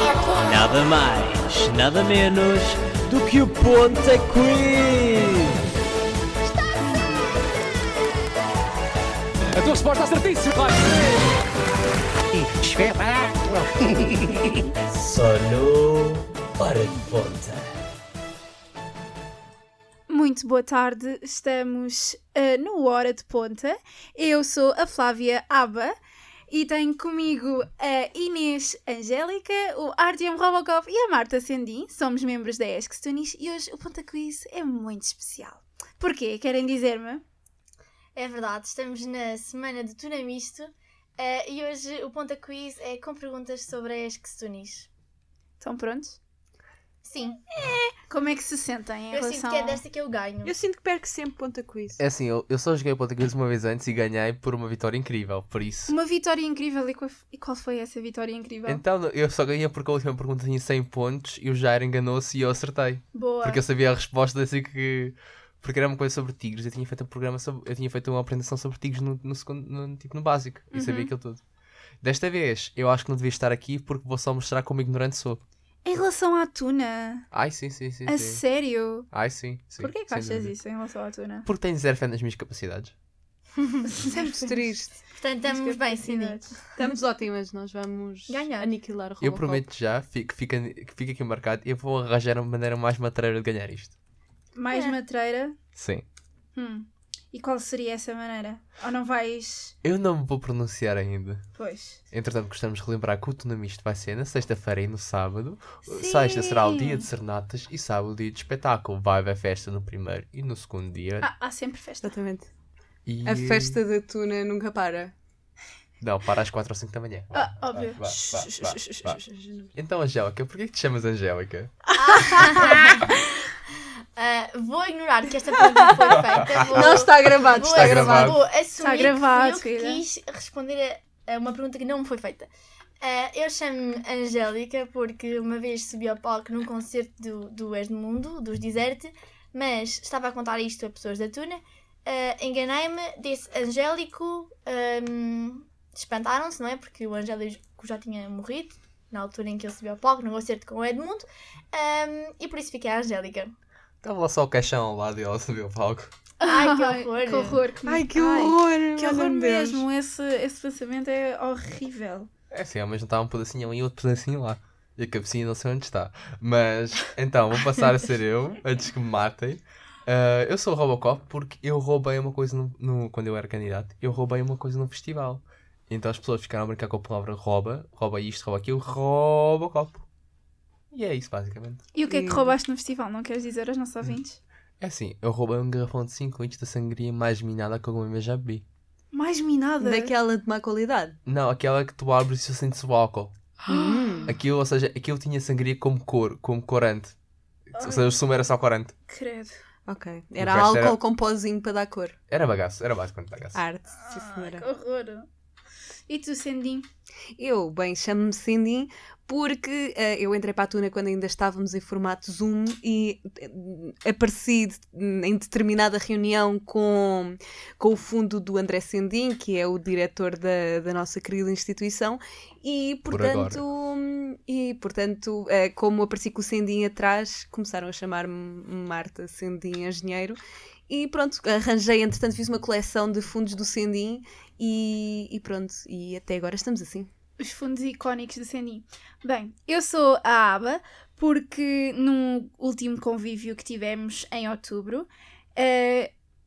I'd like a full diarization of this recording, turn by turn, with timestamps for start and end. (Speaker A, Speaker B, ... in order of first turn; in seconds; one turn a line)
Speaker A: 0.3-5.6
Speaker B: 9.6-11.3
Speaker B: 12.4-14.6
Speaker A: 14.8-17.7
Speaker C: 20.1-26.0
Speaker C: 26.5-37.2
Speaker D: 38.1-44.9
Speaker C: 45.6-46.2
Speaker D: 47.0-47.4
Speaker C: 48.0-49.8
Speaker D: 49.1-50.5
Speaker E: 50.4-52.0
Speaker F: 52.0-55.9
Speaker C: 55.9-58.8
Speaker F: 58.7-71.4
Speaker C: 63.1-63.6
Speaker C: 70.7-71.1
Speaker F: 72.0-75.4
Speaker C: 75.8-77.3
Speaker F: 77.3-78.4
Speaker C: 78.1-79.1
Speaker F: 79.1-80.5
Speaker C: 79.8-81.5
Speaker F: 81.5-82.9
Speaker D: 83.6-83.9
Speaker C: 83.8-84.7
Speaker E: 84.1-85.0
Speaker D: 85.2-86.5
Speaker C: 85.4-86.7
Speaker E: 86.8-89.7
Speaker D: 88.3-88.7
Speaker F: 89.2-93.9
Speaker C: 94.5-95.6
Speaker F: 95.8-96.0
Speaker C: 96.5-99.8
Speaker F: 99.8-101.4
Speaker C: 101.6-102.0
Speaker F: 102.1-111.3
Speaker C: 105.8-107.1
Speaker C: 111.2-112.2
Speaker E: 112.0-112.5
Speaker F: 113.1-113.8
Speaker E: 113.2-115.1
Speaker F: 116.0-119.2
Speaker C: 117.3-119.1
Speaker E: 119.0-119.7
Speaker F: 119.8-121.7
Speaker C: 122.0-123.1
Speaker D: 122.0-123.1
Speaker D: 124.2-132.5
Speaker E: 125.6-128.4
Speaker F: 126.1-128.4
Speaker C: 128.8-130.0
Speaker D: 133.0-153.5
Speaker F: 154.0-156.1
Speaker D: 156.4-157.6
Speaker C: 156.4-162.3
Speaker E: 157.9-159.8
Speaker F: 162.5-180.0
Speaker F: 180.9-181.8
Speaker C: 181.9-184.4
Speaker E: 182.1-182.6
Speaker F: 184.8-188.6
Speaker C: 189.1-190.1
Speaker E: 189.8-191.2
Speaker F: 191.3-193.3
Speaker E: 193.7-194.3
Speaker C: 193.7-194.3
Speaker F: 194.3-197.2
Speaker F: 197.7-198.9
Speaker C: 197.8-198.1
Speaker C: 199.1-199.6
Speaker E: 199.9-202.2
Speaker F: 200.4-201.0
Speaker F: 202.3-203.6
Speaker E: 203.6-204.7
Speaker C: 204.0-205.3
Speaker C: 206.1-206.9
Speaker E: 207.4-237.1
Speaker F: 223.1-223.6
Speaker C: 237.4-246.1